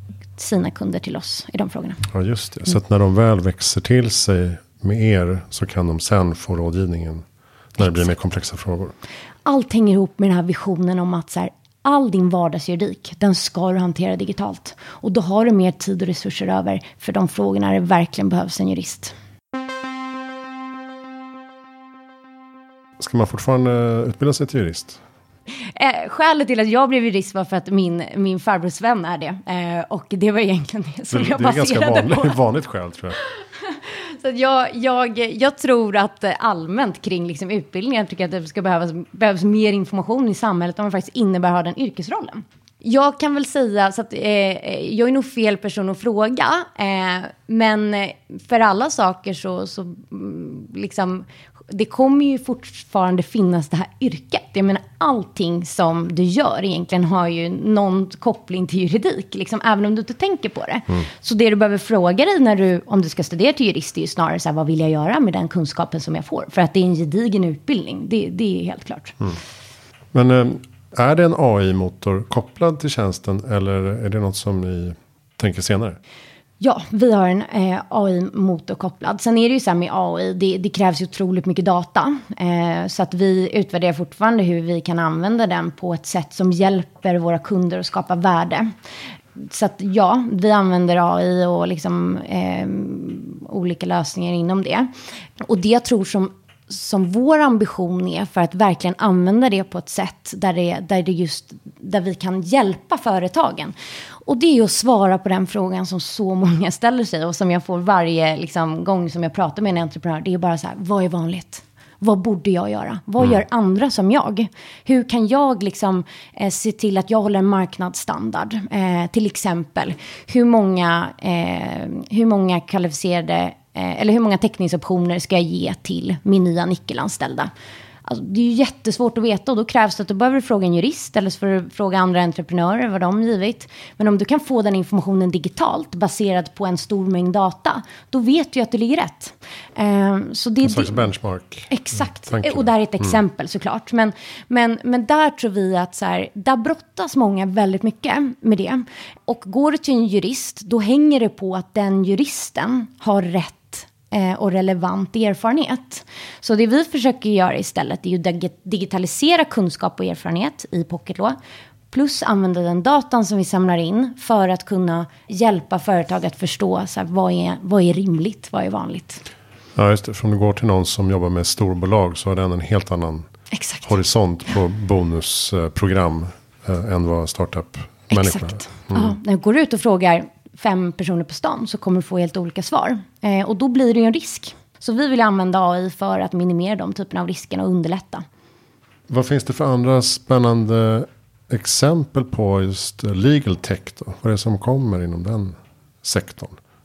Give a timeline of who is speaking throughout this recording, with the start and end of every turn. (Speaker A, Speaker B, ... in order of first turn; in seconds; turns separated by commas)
Speaker A: 0.4-2.1, Speaker B: 2.1-7.2, Speaker B: 7.7-8.9, Speaker A: 9.4-19.1, Speaker B: 23.0-25.0, Speaker A: 25.8-32.4, Speaker B: 31.1-33.2, Speaker A: 33.2-69.3, Speaker B: 70.1-76.0, Speaker A: 76.6-88.7, Speaker A: 89.4-94.9, Speaker A: 95.4-103.7, Speaker A: 104.2-127.5, Speaker A: 128.0-141.1, Speaker B: 140.6-141.7, Speaker A: 141.7-161.4, Speaker B: 142.2-143.2, Speaker A: 161.9-169.2, Speaker B: 169.8-173.3, Speaker A: 173.5-173.9, Speaker B: 173.8-179.1, Speaker A: 178.1-188.2, Speaker B: 189.1-196.6